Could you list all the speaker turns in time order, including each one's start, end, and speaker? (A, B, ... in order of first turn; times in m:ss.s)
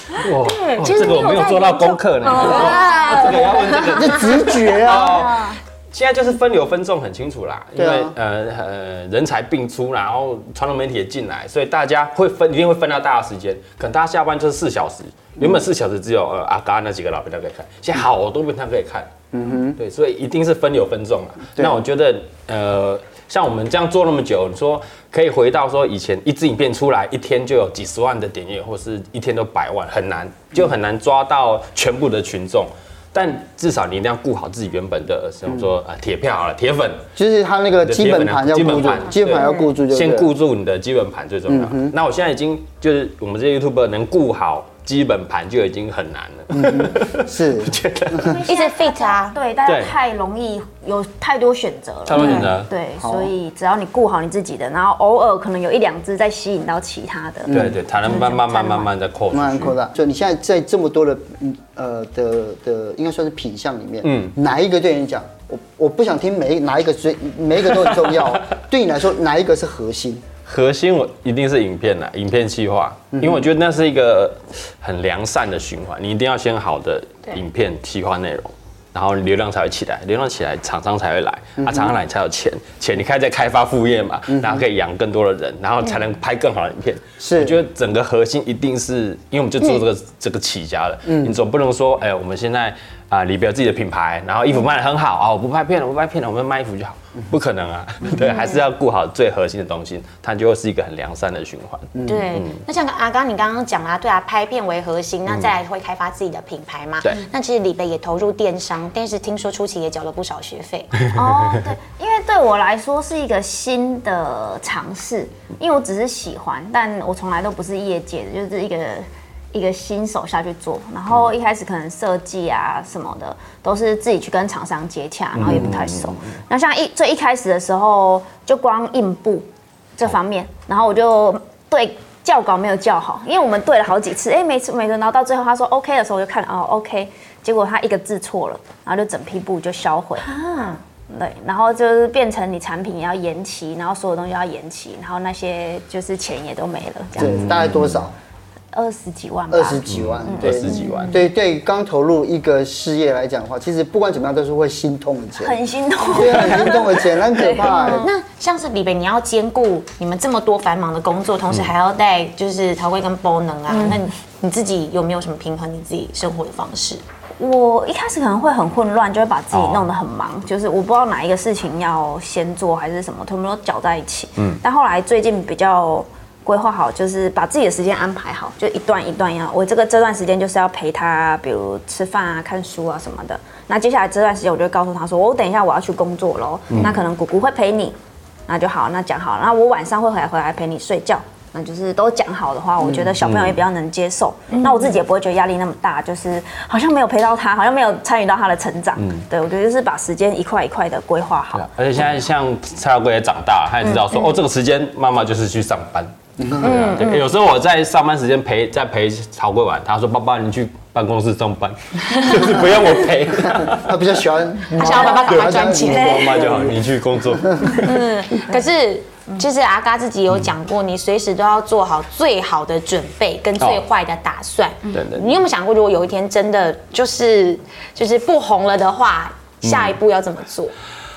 0:00.2-0:19.1 A
0:00.4-0:03.6 B
0:01.0-0:01.4 C
0:02.2-0:05.6 C
0:03.9-0:05.2 D
0:07.8-0:08.1 D
0:19.3-0:19.8 D
0:19.8-0:37.1 A
0:21.6-0:21.8 D
0:37.2-0:40.3 D
0:37.8-0:48.4 A
0:41.5-0:41.9 D
0:46.5-0:48.4 D
0:48.2-0:58.9 C
0:48.5-0:49.4 B
0:49.6-0:49.9 A
0:52.1-0:52.7 A
0:53.0-0:53.3 D
0:57.4-0:57.8 D
0:57.5-0:59.8 A
0:59.3-1:10.2 D
1:04.0-1:04.4 A
1:10.5-1:42.6 A
1:13.2-1:13.4 D
1:21.6-1:22.0 D
1:24.3-1:24.6 D
1:27.2-1:27.6 D
1:31.1-1:31.4 D
1:42.0-1:42.2 D
1:42.1-1:51.0 B
1:51.0-1:51.6 A
1:51.1-2:20.3 C
2:05.4-2:06.2 A
2:20.2-2:20.8 B
2:21.1-2:27.7 C
2:27.2-2:28.1 D
2:27.2-2:27.9 A
2:28.7-2:31.2 C
2:29.5-2:35.6 D
2:29.9-2:31.2 A
2:35.4-2:38.1 C
2:36.1-2:38.1 D
2:37.8-2:47.0 B
2:43.7-2:44.0 C
2:47.4-3:21.7 C
2:49.5-2:49.9 A
3:06.7-3:07.0 A
3:13.2-3:13.6 A
3:19.0-3:19.2 A
3:21.5-3:34.0 A
3:26.4-3:26.8 D
3:26.6-3:27.2 B
3:33.3-3:36.8 D
3:34.8-3:36.3 B
3:34.8-3:36.7 C
3:35.3-3:38.1 A
3:37.4-3:37.8 D
3:37.8-3:50.7 B
3:44.9-3:45.4 A
3:49.6-3:50.0 A